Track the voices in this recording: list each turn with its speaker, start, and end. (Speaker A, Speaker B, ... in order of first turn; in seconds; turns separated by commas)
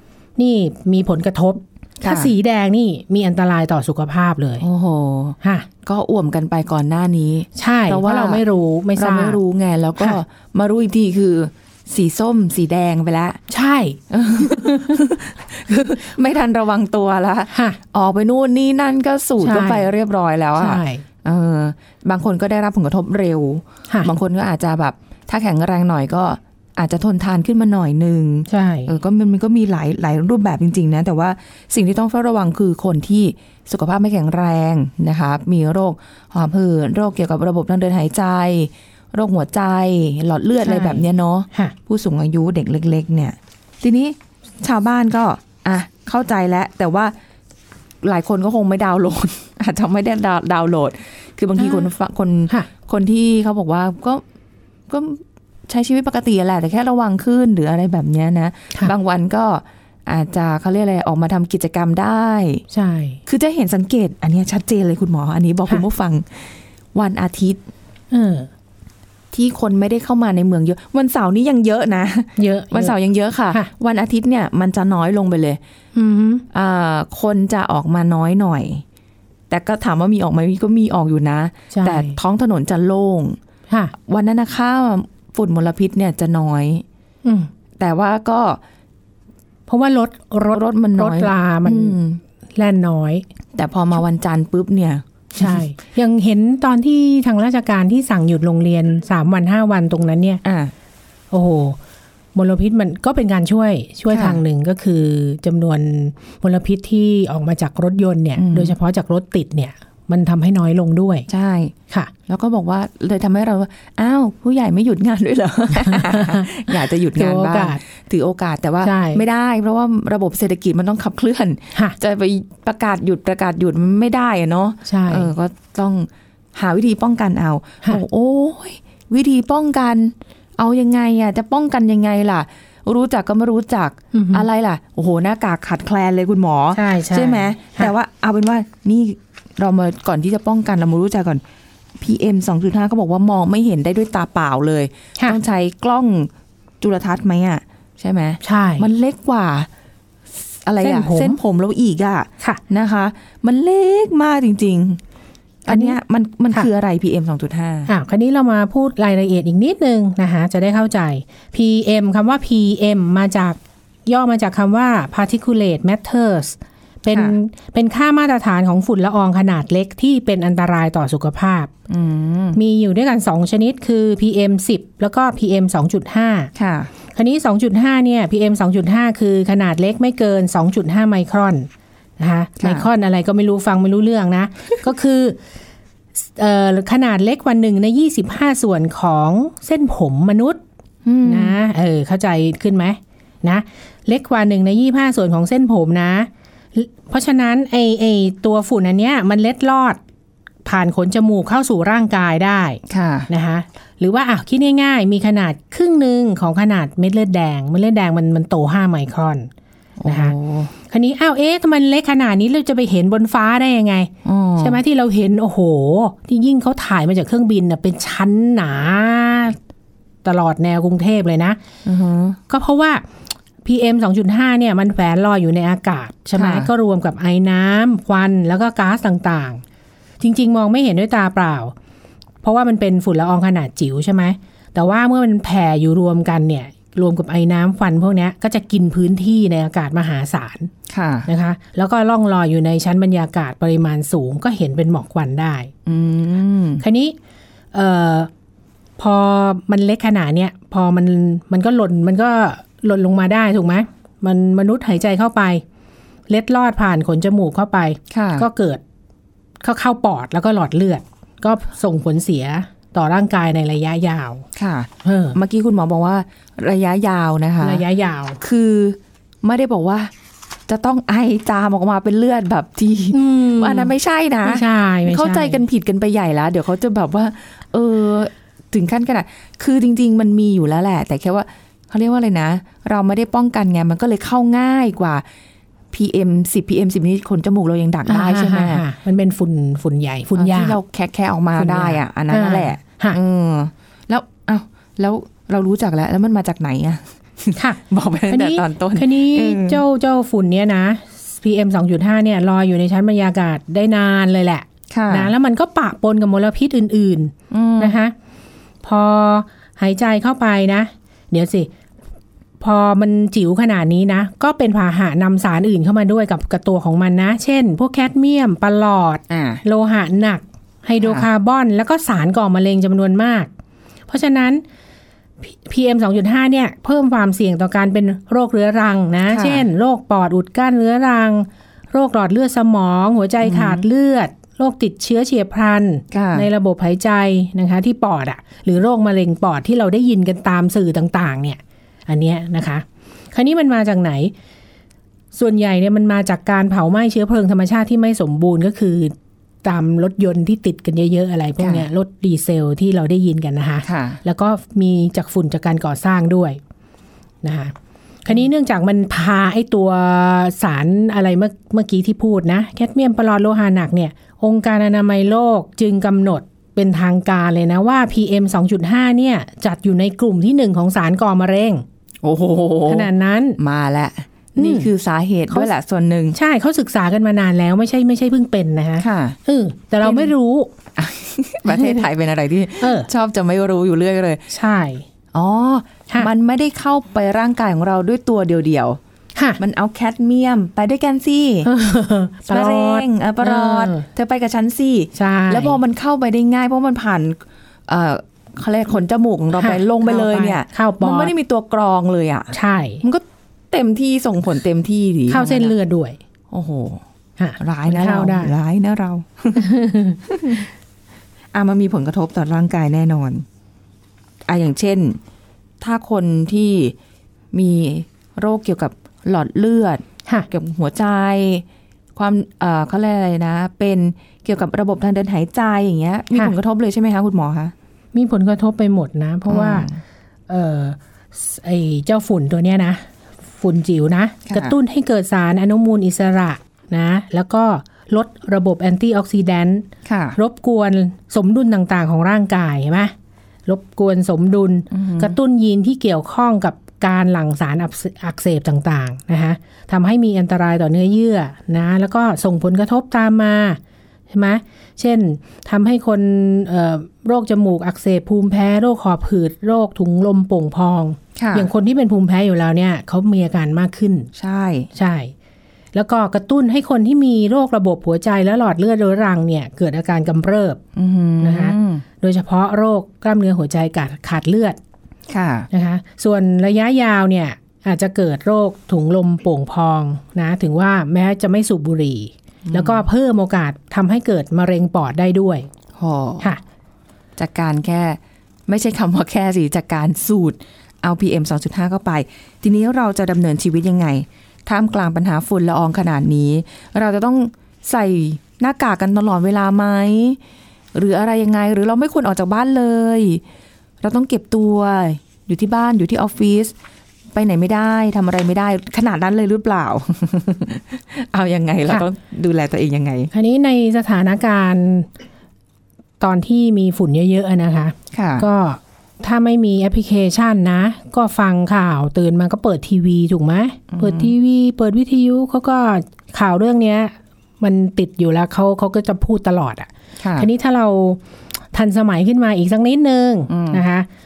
Speaker A: 0.4-4.6, Speaker B: 2.0-2.3, Speaker B: 4.6-8.4, Speaker A: 5.4-5.7, Speaker A: 7.5-9.4, Speaker B: 9.0-13.4, Speaker A: 13.5-15.0, Speaker B: 14.1-47.1, Speaker A: 17.5-17.8, Speaker A: 19.4-19.9, Speaker A: 20.6-21.0, Speaker A: 28.5-28.9, Speaker A: 40.6-41.8, Speaker B: 48.0-54.2, Speaker A: 51.6-51.9, Speaker B: 54.9-62.6, Speaker A: 62.7-63.2, Speaker B: 63.3-67.6, Speaker A: 68.1-68.5, Speaker B: 69.3-75.6, Speaker A: 72.4-73.0, Speaker A: 76.0-76.5, Speaker B: 76.5-78.8, Speaker B: 79.5-83.4, Speaker A: 81.7-82.2, Speaker B: 84.1-86.8, Speaker A: 87.2-87.5, Speaker B: 87.8-88.6, Speaker A: 89.7-92.0, Speaker B: 90.5-92.2, Speaker A: 92.5-93.2, Speaker B: 93.6-95.6, Speaker A: 95.4-100.4, Speaker B: 100.4-100.7, Speaker A: 101.3-101.8, Speaker A: 102.3-111.3, Speaker B: 104.1-104.4, Speaker B: 108.4-108.7, Speaker B: 111.3-111.7, Speaker B: 112.3-141.4, Speaker A: 115.8-116.5, Speaker A: 117.1-117.8, Speaker A: 118.8-119.2, Speaker A: 124.9-125.3, Speaker A: 134.1-134.5, Speaker A: 136.8-137.9, Speaker B: 142.0-146.3, Speaker B: 146.8-149.7, Speaker A: 148.4-148.9, Speaker B: 150.6-155.0, Speaker A: 150.8-151.4, Speaker B: 155.7-157.9, Speaker A: 155.7-156.0, Speaker A: 157.9-171.7, Speaker B: 167.1-167.4, Speaker B: 171.9-172.6, Speaker A: 172.6-176.5, Speaker B: 176.6-176.9, Speaker A: 177.2-185.4, Speaker B: 182.6-182.9, Speaker A: 186.2-190.6, Speaker B: 191.1-191.6, Speaker A: 191.2-200.0, Speaker A: 200.7-209.5, Speaker B: 202.9-203.3, Speaker B: 210.0-210.7, Speaker A: 210.1-210.3, Speaker A: 210.9-219.6, Speaker B: 214.2-214.8, Speaker A: 220.2-221.6, Speaker B: 221.8-222.4, Speaker A: 222.5-223.0, Speaker A: 223.6-229.6, Speaker B: 226.4-226.7, Speaker A: 230.2-231.7, Speaker A: 232.4-240.7, Speaker B: 240.9-241.3, Speaker A: 241.3-245.7, Speaker B: 245.9-246.8, Speaker A: 246.8-247.2, Speaker A: 247.7-248.3, Speaker A: 249.0-255.6, Speaker A: 256.3-258.8, Speaker B: 258.1-258.5, Speaker A: 259.6-264.4, Speaker B: 264.6-267.8, Speaker A: 265.0-265.4, Speaker A: 267.6-268.4, Speaker B: 268.4-270.1, Speaker B: 270.7-285.2, Speaker A: 273.1-273.9, Speaker A: 274.4-275.6, Speaker B: 285.9-288.8, Speaker A: 288.1-290.8, Speaker B: 290.4-299.8, Speaker A: 291.6-293.2, Speaker A: 297.6-308.1, Speaker B: 304.9-305.3, Speaker B: 307.5-308.0, Speaker A: 308.8-311.7, Speaker A: 312.6-323.5, Speaker B: 319.3-319.6, Speaker A: 324.1-324.6, Speaker A: 325.4-344.3, Speaker B: 329.3-329.7, Speaker B: 333.4-333.8, Speaker B: 336.1-336.5, Speaker A: 345.3-349.1, Speaker A: 349.6-356.6, Speaker B: 351.6-351.9, Speaker B: 353.8-354.2, Speaker A: 357.4-357.7, Speaker A: 358.2-371.8, Speaker B: 372.2-376.4, Speaker A: 372.9-373.6, Speaker A: 374.6-374.9, Speaker A: 376.3-380.7, Speaker B: 379.0-379.4, Speaker B: 380.0-380.3, Speaker B: 381.0-384.4, Speaker A: 381.7-382.0, Speaker A: 382.8-383.1, Speaker A: 384.5-385.1, Speaker B: 385.3-389.0, Speaker B: 389.6-391.7, Speaker A: 391.6-394.1, Speaker B: 392.5-405.7, Speaker A: 395.1-395.8, Speaker A: 399.6-401.3, Speaker A: 402.5-403.0, Speaker A: 405.3-406.2, Speaker B: 406.5-407.0, Speaker A: 407.4-408.5, Speaker B: 407.6-409.7, Speaker A: 409.6-410.2, Speaker B: 410.3-410.7, Speaker B: 411.5-413.4, Speaker B: 414.5-415.2, Speaker B: 415.8-416.9, Speaker B: 417.5-421.6, Speaker B: 422.2-427.7, Speaker A: 428.1-429.9, Speaker B: 429.5-430.0, Speaker A: 430.5-443.1, Speaker B: 434.5-434.8, Speaker B: 440.1-440.4, Speaker A: 443.7-453.8, Speaker B: 444.9-445.4, Speaker A: 454.3-464.3, Speaker B: 461.4-461.7, Speaker B: 464.4-464.9, Speaker A: 464.9-465.3, Speaker A: 465.9-470.8, Speaker B: 470.9-472.0, Speaker A: 471.4-474.8, Speaker B: 475.3-475.7, Speaker A: 475.7-485.7, Speaker B: 482.7-483.1, Speaker B: 486.0-486.5, Speaker B: 487.4-500.4, Speaker B: 500.9-503.4, Speaker B: 504.0-506.7, Speaker B: 507.4-513.3, Speaker A: 513.3-515.1, Speaker A: 516.2-531.2, Speaker B: 518.1-518.5, Speaker B: 523.9-524.3, Speaker B: 530.2-530.5, Speaker A: 531.7-534.1, Speaker B: 533.5-533.8